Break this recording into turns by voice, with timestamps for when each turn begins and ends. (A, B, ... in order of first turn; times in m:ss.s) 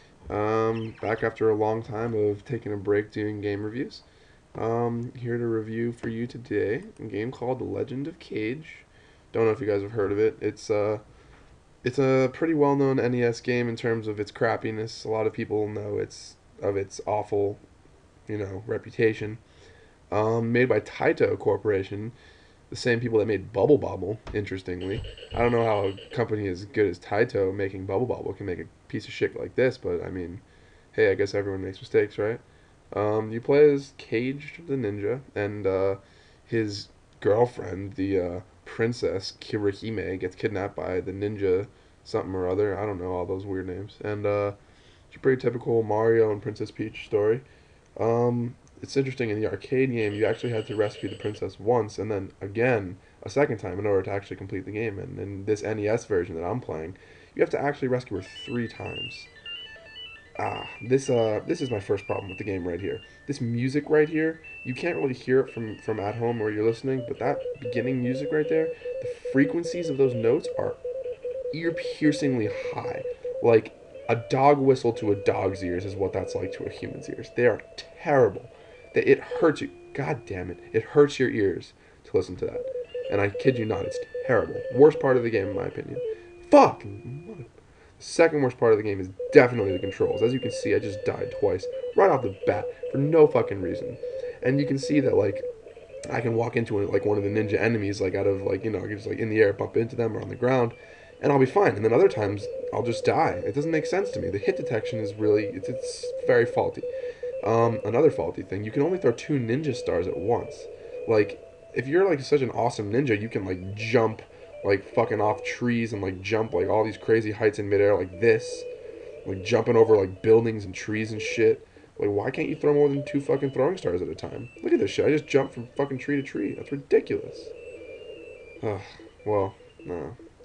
0:00.3-0:04.0 A
0:04.6-0:11.0 A
0:11.8-0:17.6 A
0:18.3-0:19.4 A
0:20.1-0:22.1 A
0:22.7-0:44.6 A
0:45.1-0:47.4 A
0:48.0-0:59.3 A
1:00.4-1:10.8 A
1:11.5-1:35.5 A
1:36.1-1:46.9 A
1:47.4-1:58.7 A
1:59.2-2:07.5 A
2:08.6-2:10.2 A